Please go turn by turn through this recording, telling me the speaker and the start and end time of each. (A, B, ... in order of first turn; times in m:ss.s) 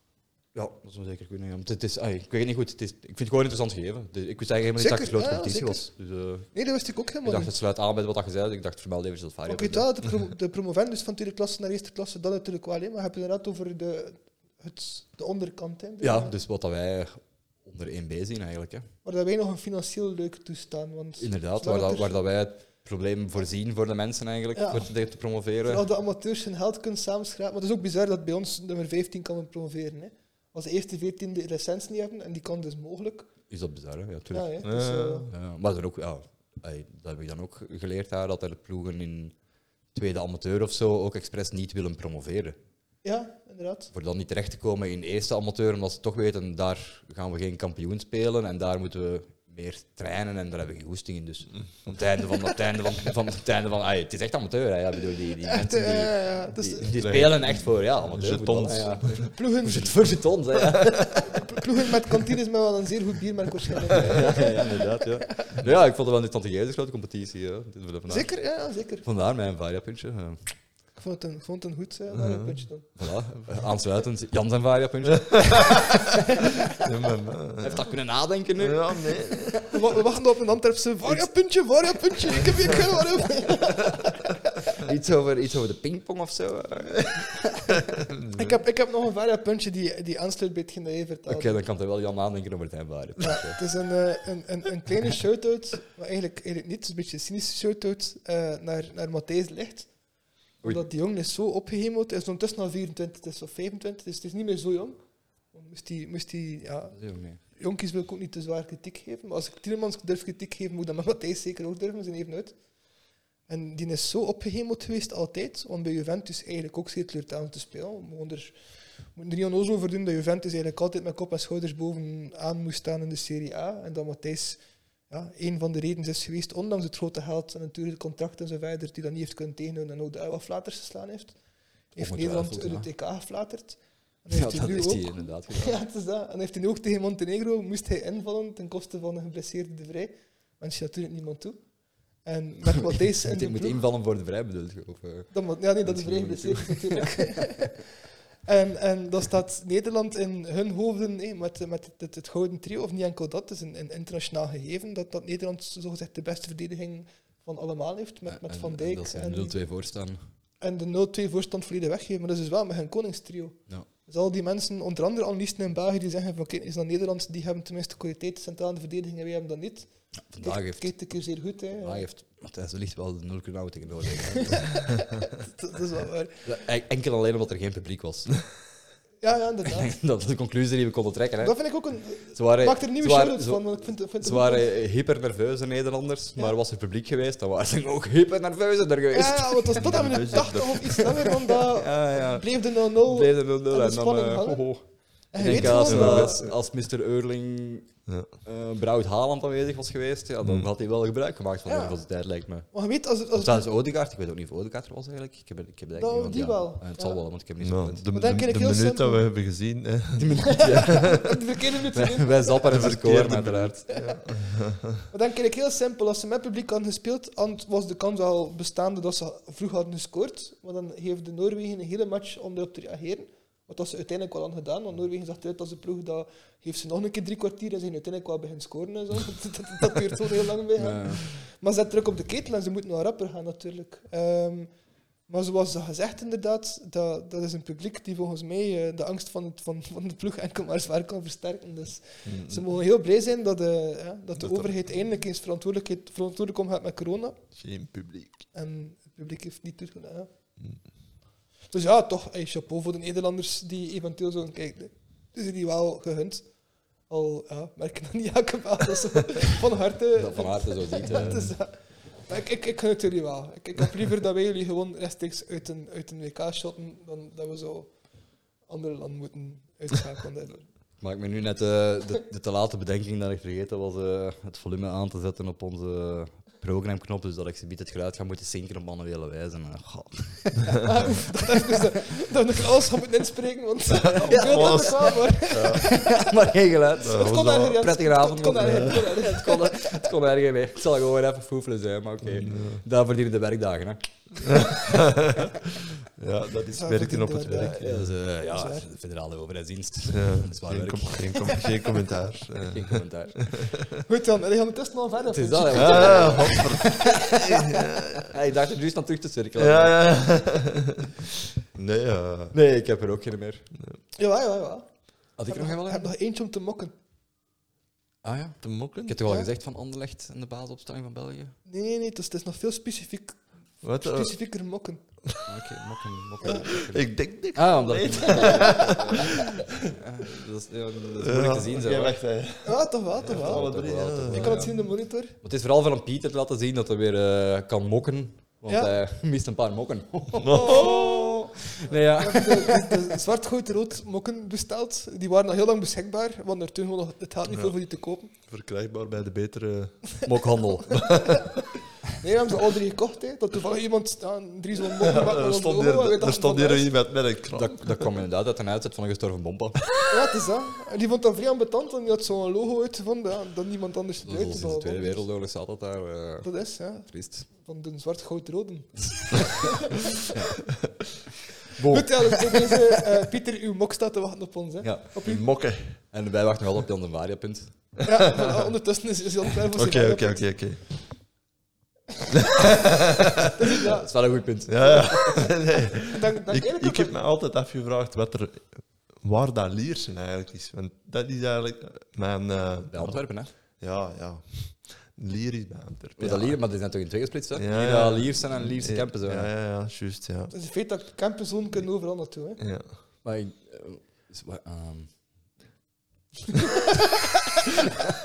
0:00.5-0:06.5 A
0:04.8-0:05.8 B
0:06.5-0:07.5 B
0:07.2-0:09.8 A
0:09.5-0:16.3 B
0:16.0-0:18.9 A
0:19.0-0:22.2 B
0:21.2-0:25.8 A
0:24.5-0:24.9 B
0:25.6-0:33.3 B
0:33.5-0:34.6 A
0:34.3-0:35.3 B
0:34.6-0:35.3 C
0:35.3-0:39.3 A
0:39.9-0:42.6 A
0:43.0-0:43.9 B
0:43.9-1:01.5 A
0:55.4-0:56.9 B
0:57.0-0:59.3 C
0:59.0-1:05.5 B
1:03.9-1:08.3 A
1:08.1-1:09.0 B
1:09.0-1:10.5 A
1:11.0-1:12.9 B
1:12.1-1:12.6 C
1:13.0-1:16.6 A
1:15.4-1:16.0 C
1:16.7-1:17.9 C
1:17.6-1:19.6 A
1:18.6-1:19.6 C
1:19.6-1:24.6 B
1:22.7-1:23.2 A
1:24.8-1:27.9 A
1:28.1-1:28.6 C
1:28.3-1:31.6 B
1:31.3-1:33.6 A
1:33.2-1:39.9 B
1:40.6-1:45.0 B
1:45.5-1:47.0 B
1:46.9-1:47.4 A
1:47.5-1:52.6 B
1:53.5-1:58.6 B
1:59.1-2:11.4 B
2:11.9-2:21.6 B
2:12.0-2:12.9 A
2:14.3-2:15.8 A
2:22.2-2:23.8 B
2:22.7-2:27.4 A
2:25.3-2:39.5 B
2:38.3-2:40.2 A
2:40.6-2:49.9 B
2:50.3-2:50.9 A
2:50.4-2:52.0 B
2:51.8-2:54.8 A
2:54.3-2:56.4 B
2:56.4-2:58.4 A
2:59.2-2:59.9 B
2:59.7-3:03.6 A
3:01.4-3:04.7 B
3:04.2-3:17.9 A
3:09.1-3:14.7 B
3:09.8-3:11.0 C
3:15.3-3:16.5 B
3:15.5-3:16.4 C
3:18.0-3:18.3 C
3:18.4-3:22.7 A
3:20.4-3:20.7 C
3:21.6-3:22.0 B
3:22.7-3:23.7 B
3:23.3-3:28.0 A
3:25.9-3:27.2 B
3:27.6-3:31.2 C
3:28.1-3:29.2 B
3:30.2-3:31.3 A
3:30.4-3:32.9 B
3:31.9-3:33.8 A
3:32.6-3:35.0 C
3:33.9-3:34.2 B
3:35.1-3:54.7 B
3:50.8-3:51.3 A
3:55.3-4:07.4 B
4:02.2-4:02.7 C
4:04.4-4:04.7 C
4:07.5-4:08.4 C
4:08.5-4:10.3 B
4:11.7-4:16.4 B
4:17.1-4:27.9 B
4:20.1-4:21.5 A
4:28.7-4:30.7 B
4:31.0-4:41.2 A
4:40.7-4:46.3 B
4:44.0-4:45.9 C
4:44.1-4:55.5 A
4:47.0-4:47.8 C
4:47.0-4:50.1 B
4:48.6-4:49.0 C
4:52.2-4:52.8 C
4:54.4-4:58.1 C
4:56.7-4:58.9 B
4:57.4-5:01.5 A
5:00.1-5:04.0 C
5:02.6-5:03.7 A
5:04.0-5:06.6 B
5:05.3-5:10.3 A
5:05.7-5:08.4 C
5:09.6-5:11.2 C
5:11.7-5:12.6 C
5:12.5-5:13.7 A
5:14.2-5:14.9 B
5:15.4-5:16.1 A
5:15.4-5:16.9 B
5:18.2-5:21.5 A
5:18.6-5:19.2 C
5:21.6-5:23.4 B
5:23.8-5:24.3 C
5:23.9-5:25.0 B
5:25.2-5:25.6 C
5:25.5-5:32.2 A
5:26.4-5:29.9 C
5:28.3-5:28.8 B
5:31.2-5:34.8 C
5:32.6-5:35.4 B
5:33.3-5:34.8 A
5:35.4-5:43.2 A
5:38.7-5:38.9 B
5:40.3-5:41.3 C
5:40.5-5:41.3 B
5:42.2-5:48.3 B
5:47.5-5:47.7 C
5:48.5-5:50.2 C
5:50.2-5:51.1 A
5:50.9-5:51.6 C
5:51.0-5:51.6 B
5:52.2-5:56.9 B
5:54.9-5:58.1 C
5:57.5-6:00.0 A
6:00.1-6:05.2 B
6:04.2-6:07.5 A
6:06.4-6:10.3 B
6:10.3-6:10.6 A
6:11.7-6:12.8 A
6:11.9-6:15.4 B
6:14.8-6:15.4 A
6:15.2-6:16.0 C
6:16.0-6:18.0 A
6:18.0-6:20.4 B
6:19.7-6:20.8 C
6:22.3-6:23.5 C
6:23.5-6:24.1 B
6:23.8-6:25.5 A
6:24.7-6:36.6 C
6:26.1-6:27.2 B
6:32.9-6:33.5 A
6:36.2-6:39.5 A
6:37.5-6:40.5 C
6:40.5-6:42.6 B
6:42.6-6:43.0 C
6:43.2-6:45.1 A